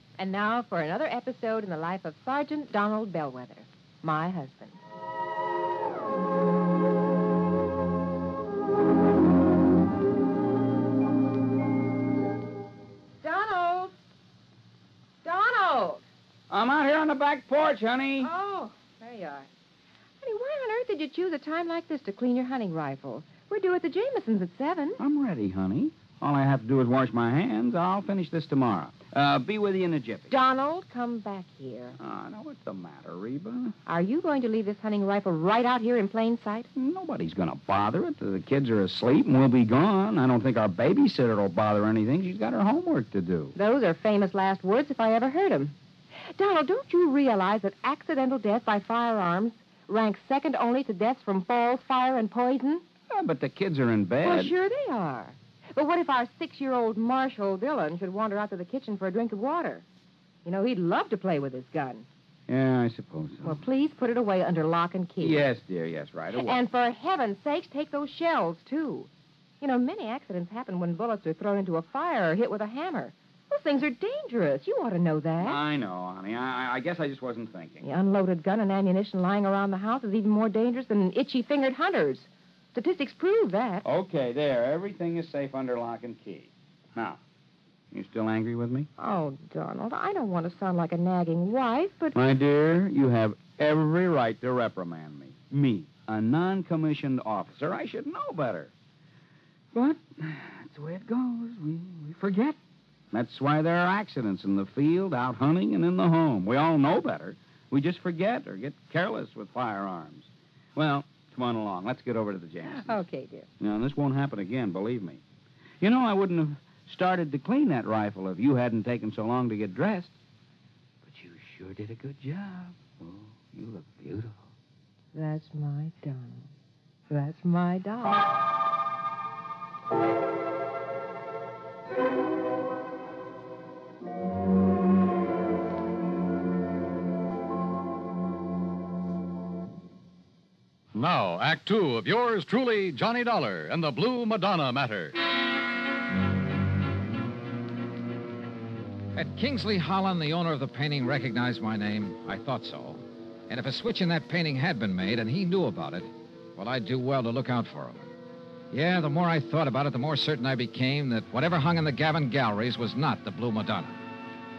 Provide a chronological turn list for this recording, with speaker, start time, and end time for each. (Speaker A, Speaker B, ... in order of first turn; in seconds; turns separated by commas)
Speaker A: 0.2-4.8, Speaker A: 13.2-13.9, Speaker A: 15.2-16.0, Speaker B: 16.5-18.3, Speaker A: 18.2-19.5, Speaker A: 20.2-25.0, Speaker B: 25.0-30.3, Speaker A: 30.3-31.9, Speaker B: 32.0-33.8, Speaker A: 33.9-36.7, Speaker B: 36.7-43.5, Speaker A: 43.5-45.7, Speaker A: 46.4-52.8, Speaker B: 53.1-54.5, Speaker A: 54.2-59.8, Speaker A: 60.4-62.0, Speaker B: 62.5-63.6, Speaker A: 63.4-65.4, Speaker B: 65.2-66.6, Speaker A: 66.3-69.1, Speaker A: 69.6-75.6, Speaker B: 75.4-77.8, Speaker A: 77.8-83.8, Speaker B: 83.8-87.2, Speaker B: 87.9-88.9, Speaker A: 89.0-92.2, Speaker B: 92.1-98.7, Speaker B: 99.7-102.6, Speaker B: 103.1-113.0, Speaker A: 112.6-113.5, Speaker B: 113.6-115.2, Speaker B: 115.8-120.1, Speaker B: 121.0-124.5, Speaker A: 125.1-126.5, Speaker A: 127.1-128.2, Speaker C: 140.9-145.1, Speaker D: 149.1-158.1, Speaker D: 158.7-164.0